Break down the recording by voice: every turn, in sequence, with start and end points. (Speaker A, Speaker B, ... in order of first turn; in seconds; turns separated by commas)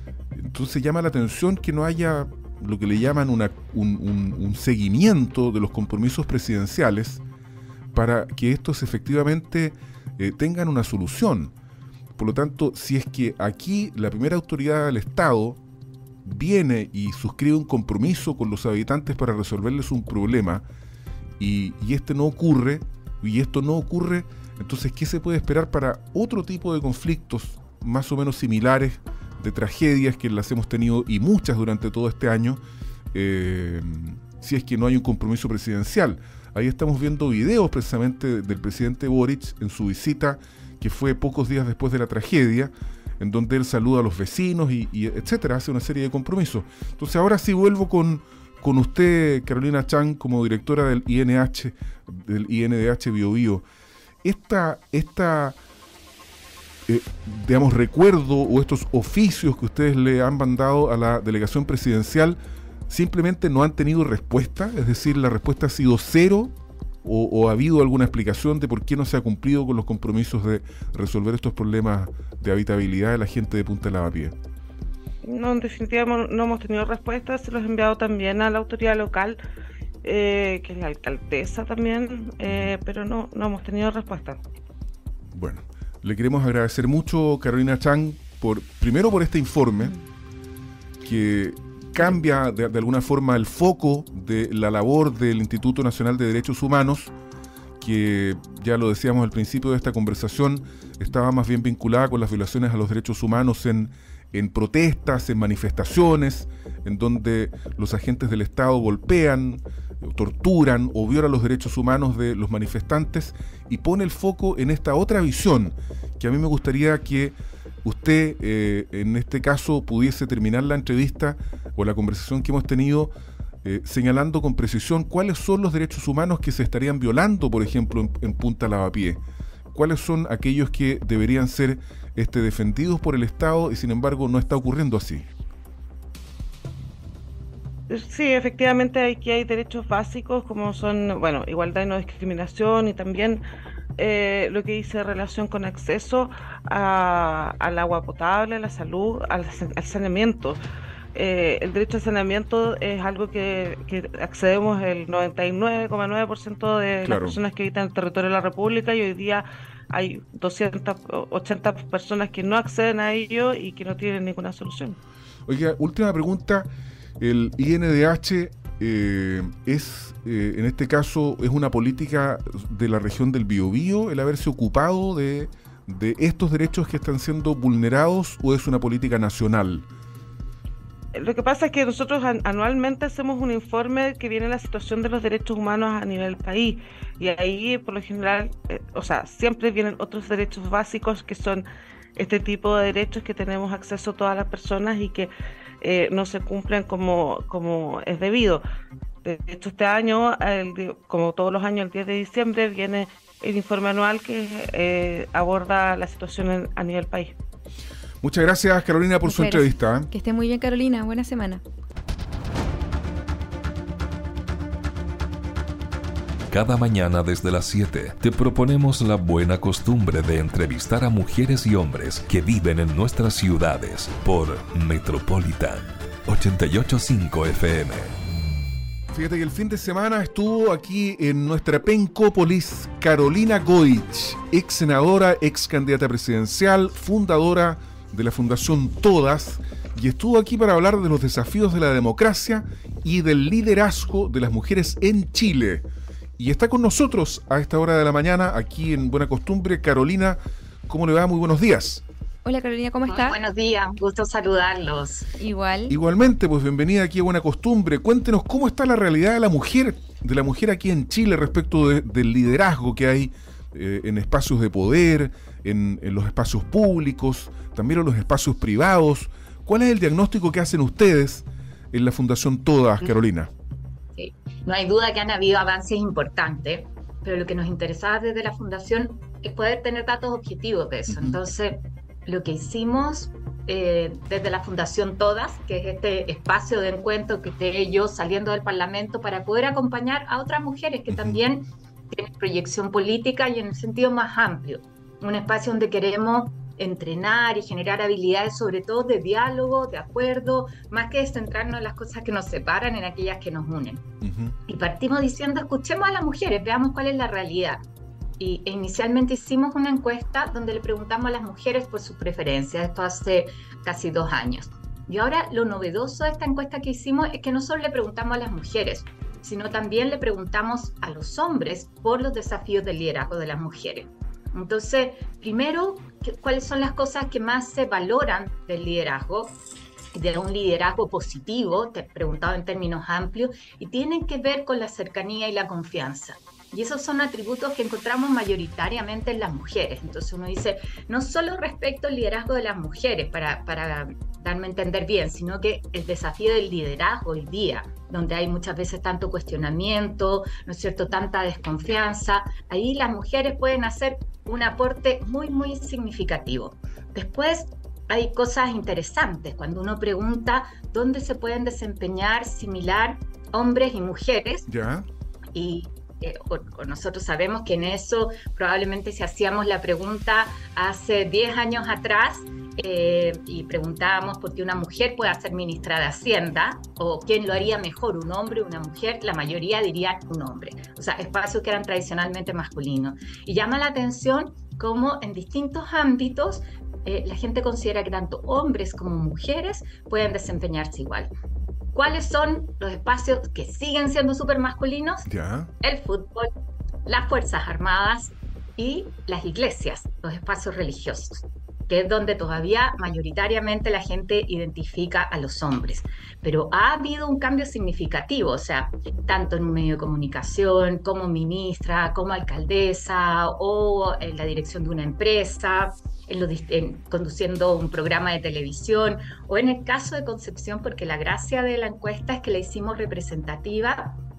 Speaker A: 0.3-7.2, Speaker A: 7.9-11.5, Speaker A: 12.2-15.6, Speaker A: 16.2-20.6, Speaker A: 21.4-53.6, Speaker A: 54.2-55.6, Speaker A: 56.9-74.3, Speaker B: 75.2-79.4, Speaker B: 80.0-84.4, Speaker A: 82.5-82.7, Speaker A: 85.3-90.0, Speaker A: 91.0-97.1, Speaker A: 97.8-123.1, Speaker A: 123.6-129.2, Speaker A: 129.7-135.3, Speaker B: 137.9-143.4, Speaker B: 144.0-150.6, Speaker B: 151.2-165.0, Speaker A: 157.0-157.4, Speaker A: 165.5-166.7, Speaker A: 167.2-179.9, Speaker B: 181.1-191.7, Speaker B: 192.2-198.6, Speaker B: 199.2-207.4, Speaker A: 208.2-210.1, Speaker C: 209.2-211.6, Speaker D: 216.5-228.2, Speaker A: 229.1-245.9, Speaker A: 246.4-252.0, Speaker C: 252.4-253.4, Speaker E: 253.1-255.3, Speaker C: 255.4-256.0, Speaker A: 255.9-273.5, Speaker E: 274.2-304.0, Speaker A: 281.1-281.4, Speaker A: 291.1-291.4, Speaker A: 304.2-304.6, Speaker E: 304.7-307.8, Speaker E: 308.4-329.6, Speaker E: 330.1-364.7, Speaker A: 364.7-365.1, Speaker E: 365.5-391.3, Speaker E: 391.9-395.3, Speaker A: 395.3-395.7, Speaker E: 395.8-396.5, Speaker E: 397.1-424.2